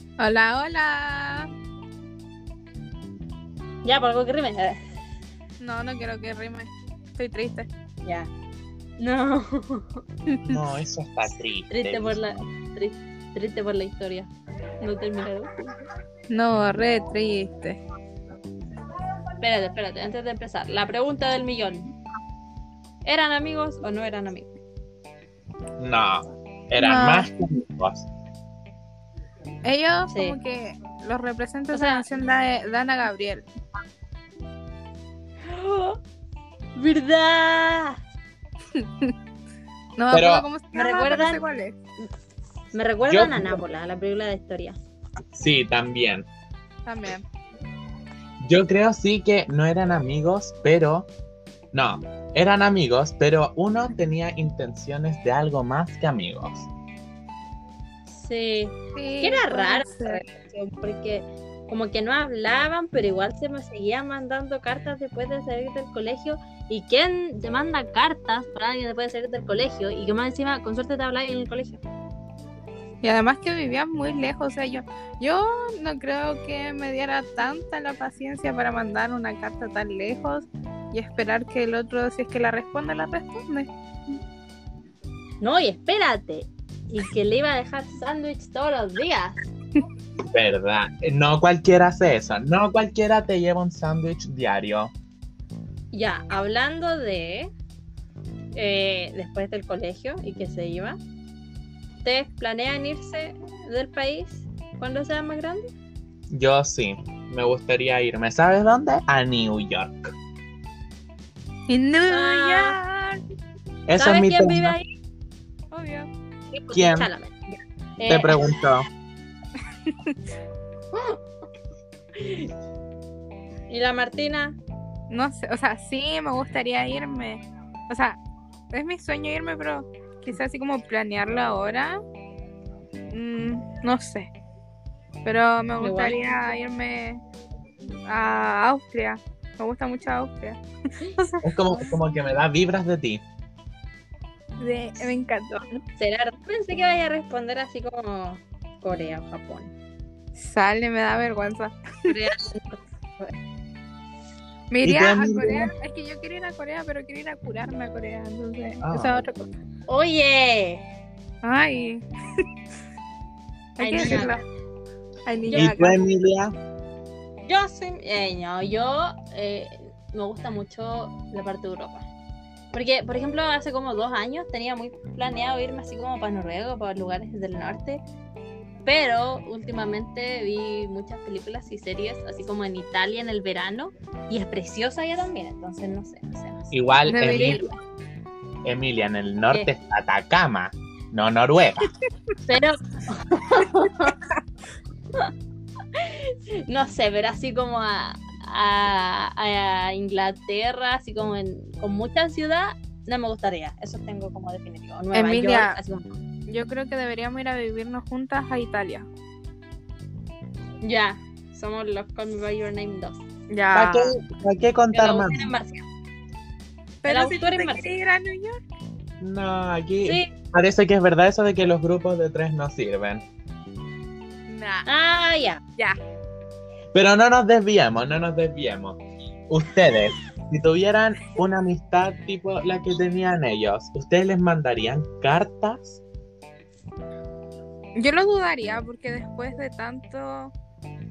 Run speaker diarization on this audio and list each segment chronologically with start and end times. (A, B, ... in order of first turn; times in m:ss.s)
0:00.2-0:01.5 A
0:03.8-0:04.8 B
0:05.6-0:07.7 A
0:08.0-0:08.3 B
0:09.0-0:10.0 B
0:10.4-0:12.2 C
0:11.7-0:15.5 B
0:16.3-0:17.8 A
0:19.4-0:21.9 B
0:23.0-0:24.5 B
0:25.8-0:28.1 C
0:26.8-0:27.3 A
0:29.6-0:33.4 A
0:30.1-0:30.4 B
0:31.7-0:32.1 B
0:35.5-0:36.0 B
0:36.8-0:38.0 B
0:38.8-0:39.1 A
0:40.0-0:41.8 A
0:40.1-0:40.5 C
0:40.7-0:41.4 B
0:42.7-0:44.8 B
0:43.1-0:43.6 C
0:45.3-0:46.3 C
0:46.8-0:47.2 A
0:48.4-0:51.1 C
0:51.7-0:56.7 C
0:58.1-1:11.8 B
0:58.9-1:00.2 A
1:13.0-1:23.7 A
1:25.4-1:29.4 B
1:30.3-1:34.9 C
1:35.9-1:37.5 B
1:38.5-1:41.0 B
1:42.0-1:45.7 B
1:46.3-1:50.1 C
1:51.7-1:53.2 A
1:52.1-1:52.8 B
1:53.9-1:54.8 C
1:53.9-1:54.9 B
1:55.7-1:56.1 A
1:56.5-1:57.4 B
1:56.7-1:57.1 C
1:58.0-1:58.5 B
1:58.1-1:58.9 C
1:59.9-2:00.1 A
2:02.2-2:02.5 B
2:03.7-2:04.6 B
2:05.1-2:08.2 A
2:08.7-2:12.0 A
2:13.1-2:14.3 A
2:15.2-2:17.2 A
2:15.8-2:16.2 B
2:18.1-2:20.6 A
2:21.2-2:21.8 A
2:21.4-2:23.2 C
2:24.6-2:25.7 A
2:26.0-2:29.7 B
2:30.4-2:31.7 A
2:32.1-2:33.3 B
2:34.7-2:39.5 A
2:34.8-2:35.7 C
2:38.8-2:39.2 C
2:39.9-2:40.8 B
2:41.4-2:42.0 A
2:43.8-2:44.4 A
2:43.8-2:44.4 B
2:45.3-2:46.0 A
2:45.5-2:46.5 C
2:47.4-2:52.0 B
2:52.7-2:58.0 B
2:58.8-3:06.7 B
3:06.7-3:07.7 C
3:07.0-3:07.7 A
3:08.6-3:11.9 C
3:12.4-3:14.2 B
3:16.7-3:26.1 B
3:25.1-3:25.8 A
3:26.5-3:29.1 A
3:30.8-3:33.2 B
3:33.5-3:34.1 A
3:33.7-3:35.5 C
3:34.9-3:35.8 B
3:37.0-3:38.6 A
3:37.1-3:37.9 B
3:39.2-3:43.2 C
3:40.0-3:40.3 B
3:44.5-3:44.9 A
3:44.8-3:45.6 B
3:46.9-3:56.0 C
3:58.0-4:00.5 A